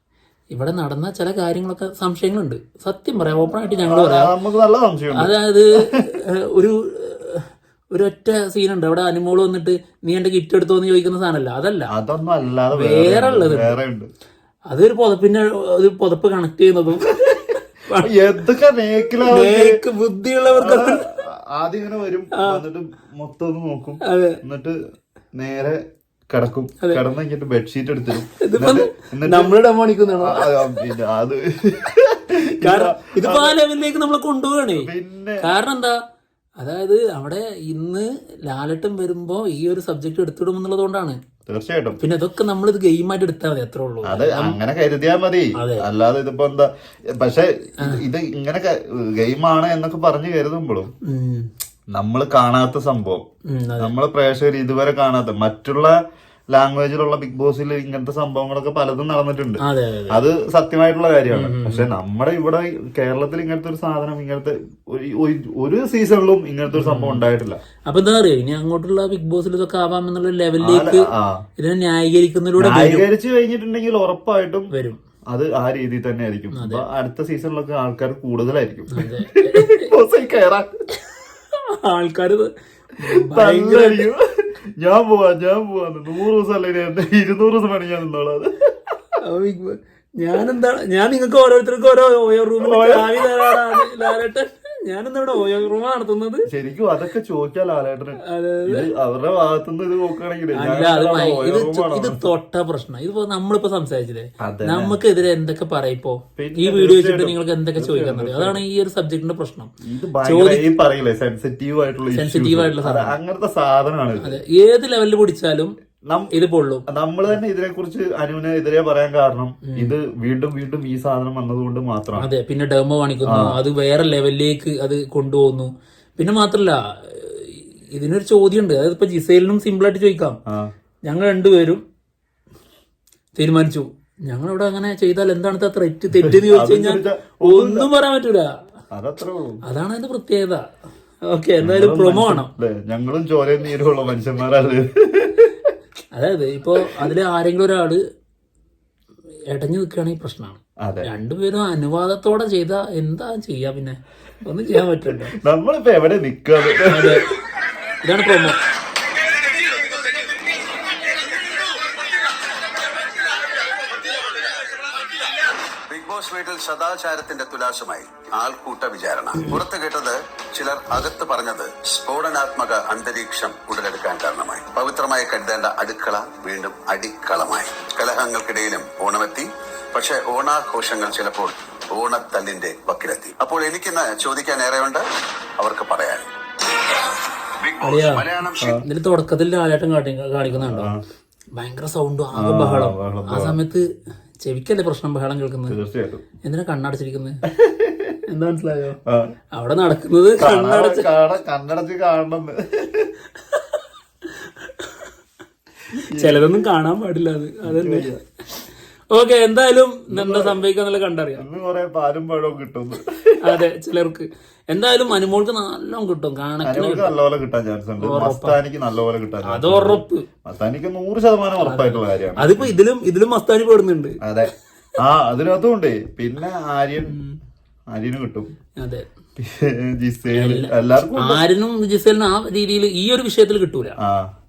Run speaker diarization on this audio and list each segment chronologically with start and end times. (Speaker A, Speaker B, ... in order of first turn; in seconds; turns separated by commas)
Speaker A: 0.5-4.3, Speaker B: 3.7-5.3, Speaker A: 5.1-11.9, Speaker B: 11.9-14.1, Speaker A: 12.7-13.8, Speaker A: 14.7-18.1, Speaker B: 18.0-19.8, Speaker A: 19.1-21.1, Speaker B: 20.5-24.8, Speaker A: 22.3-22.6, Speaker A: 24.0-24.4, Speaker B: 25.4-29.6, Speaker A: 28.4-30.9, Speaker B: 30.2-33.6, Speaker A: 32.6-34.9, Speaker B: 34.7-35.5, Speaker A: 35.4-36.0, Speaker A: 36.6-41.2, Speaker B: 41.5-42.0, Speaker A: 42.0-44.6, Speaker B: 44.1-50.9, Speaker A: 45.6-45.9, Speaker A: 51.0-51.5, Speaker B: 51.9-53.2, Speaker A: 53.5-53.9, Speaker B: 53.8-56.0, Speaker B: 56.5-67.6, Speaker A: 59.6-60.2, Speaker A: 61.3-61.9, Speaker A: 66.7-67.2, Speaker A: 67.9-71.1, Speaker B: 70.6-71.4, Speaker A: 71.6-73.1, Speaker B: 72.6-74.7, Speaker A: 74.7-75.0, Speaker B: 75.3-80.7, Speaker A: 76.5-76.8, Speaker A: 78.9-79.9, Speaker A: 81.2-84.1, Speaker B: 83.2-84.3, Speaker B: 84.8-88.8, Speaker A: 89.2-96.5, Speaker B: 92.6-93.9, Speaker B: 96.5-102.2, Speaker A: 98.2-98.9, Speaker A: 100.5-109.7, Speaker B: 104.4-105.0, Speaker B: 106.4-108.6, Speaker B: 109.9-114.4, Speaker A: 110.2-110.7, Speaker A: 112.1-113.2, Speaker A: 114.2-115.7, Speaker B: 116.1-116.4, Speaker A: 116.3-116.8, Speaker B: 116.9-122.3, Speaker A: 119.7-120.0, Speaker A: 122.2-130.4, Speaker B: 123.2-123.6, Speaker A: 131.0-131.8, Speaker A: 133.4-138.5, Speaker B: 136.3-137.9, Speaker B: 138.9-139.6, Speaker A: 139.6-140.7, Speaker A: 141.3-142.5, Speaker B: 141.6-145.7, Speaker A: 146.1-148.0, Speaker A: 149.5-155.3, Speaker B: 150.8-151.1, Speaker B: 155.4-157.3, Speaker A: 156.9-157.3, Speaker A: 158.0-158.6, Speaker C: 164.4-165.3, Speaker C: 165.9-185.1, Speaker C: 185.6-186.3, Speaker C: 187.6-188.7, Speaker A: 187.8-190.9, Speaker B: 190.5-191.0, Speaker A: 191.6-193.8, Speaker B: 192.3-193.6, Speaker A: 194.4-195.8, Speaker B: 195.7-196.2, Speaker A: 196.4-197.4, Speaker B: 197.5-198.2, Speaker A: 198.3-199.0, Speaker B: 199.1-199.3, Speaker A: 199.5-201.1, Speaker B: 200.4-203.1, Speaker A: 203.4-203.8, Speaker A: 204.4-204.9, Speaker A: 206.1-208.1, Speaker B: 206.1-206.7, Speaker B: 207.7-208.2, Speaker A: 209.1-211.4, Speaker B: 210.1-210.6, Speaker B: 211.4-213.6, Speaker A: 213.4-217.1, Speaker B: 216.6-222.8, Speaker A: 218.0-218.6, Speaker A: 219.4-220.3, Speaker A: 221.6-224.2, Speaker B: 224.2-227.2, Speaker B: 227.9-228.5, Speaker A: 228.8-229.1, Speaker B: 229.4-231.4, Speaker A: 230.3-234.0, Speaker B: 234.0-234.3